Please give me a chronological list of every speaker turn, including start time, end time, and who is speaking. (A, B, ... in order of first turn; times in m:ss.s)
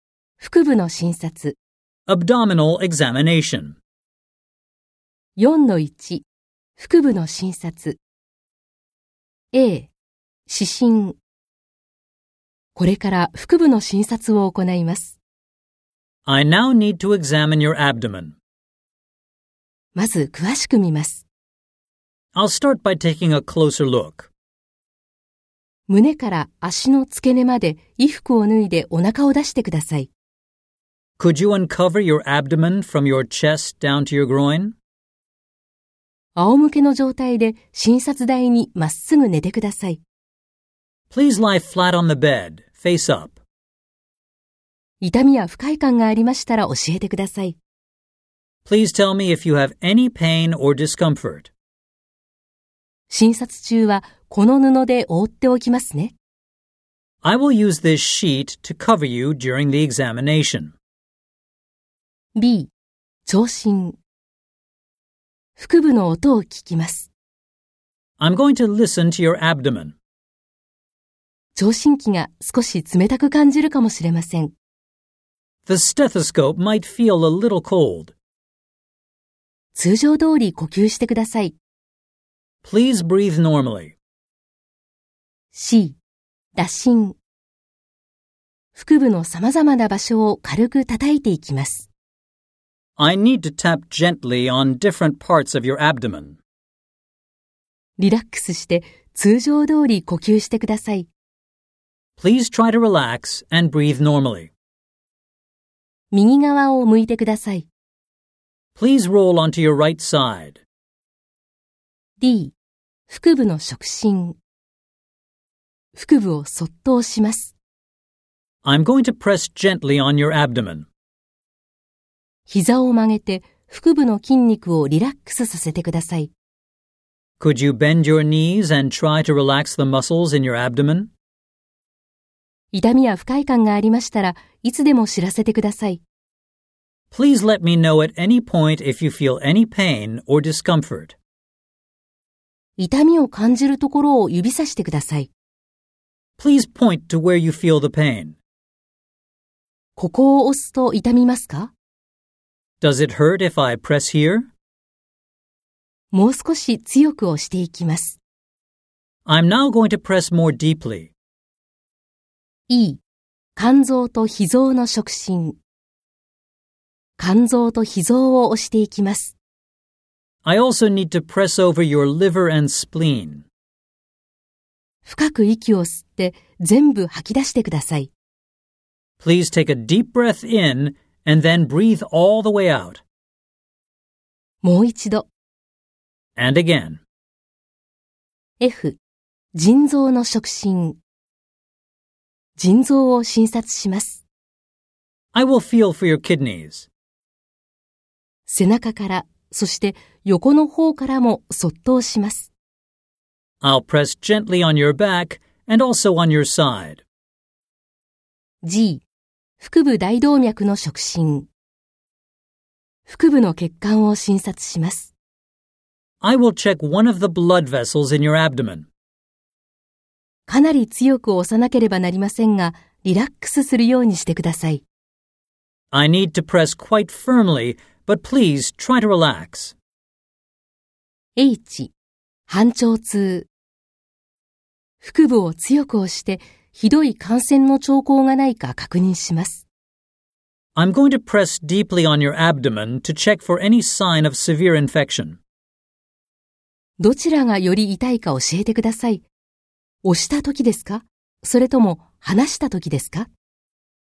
0:00.4-0:01.6 A
0:02.0-0:03.8 B
0:05.4-0:06.2 A
0:06.8-0:08.0 A
0:09.5-0:09.9 A
0:10.5-0:11.2 A
0:12.7-0:15.2 A
0:16.2-0:18.4 B
0:19.9-0:21.2 A
0:22.3-0:24.3 B
0:25.9-0:30.1 A
0:31.2-0:34.8 B
0:36.4-0:40.0 A
0:41.1-0:43.4 B
0:45.0-0:47.6 A
0:48.6-0:51.5 B
0:53.1-0:56.2 A
0:57.2-1:00.8 B
1:02.3-1:02.7 A
1:03.2-1:04.0 A
1:05.6-1:07.1 A
1:08.2-1:10.0 B
1:11.6-1:14.5 A
1:15.6-1:18.1 B
1:19.7-1:21.5 A
1:22.6-1:24.0 B
1:25.5-1:26.0 A
1:26.6-1:27.2 A
1:28.7-1:31.9 A
1:33.0-1:36.4 B
1:38.0-1:41.1 A
1:42.2-1:44.5 B
1:46.1-1:47.7 A
1:48.7-1:50.6 B
1:52.2-1:52.5 A
1:53.1-1:54.4 A
1:55.9-1:57.5 A
1:58.6-2:00.9 B
2:02.5-2:06.3 A
2:07.4-2:11.1 B
2:12.7-2:16.0 A
2:17.1-2:21.2 B
2:22.8-2:25.3 A
2:26.4-2:28.4 B
2:30.0-2:31.7 A
2:32.8-2:34.5 B
2:36.1-2:38.2 A
2:39.2-2:41.1 B
2:42.7-2:43.0 A
2:43.6-2:45.6 A
2:47.2-2:49.4 A
2:50.4-2:53.4 B
2:55.0-2:58.1 A
2:59.2-3:03.0 B
3:04.6-3:05.3 A
3:06.3-3:07.0 B
3:08.6-3:09.0 A
3:09.5-3:11.0 A
3:12.6-3:14.2 A
3:15.3-3:16.9 B
3:18.5-3:22.5 A
3:23.6-3:27.0 B
3:28.6-3:29.0 A
3:29.6-3:31.5 A
3:33.1-3:35.1 A
3:36.2-3:38.9 B
3:40.5-3:44.8 A
3:45.9-3:49.8 B
3:51.4-3:51.9 A
3:52.5-3:53.5 A
3:55.0-3:59.6 A
4:00.7-4:05.4 B
4:07.0-4:09.2 A
4:10.0-4:13.3 A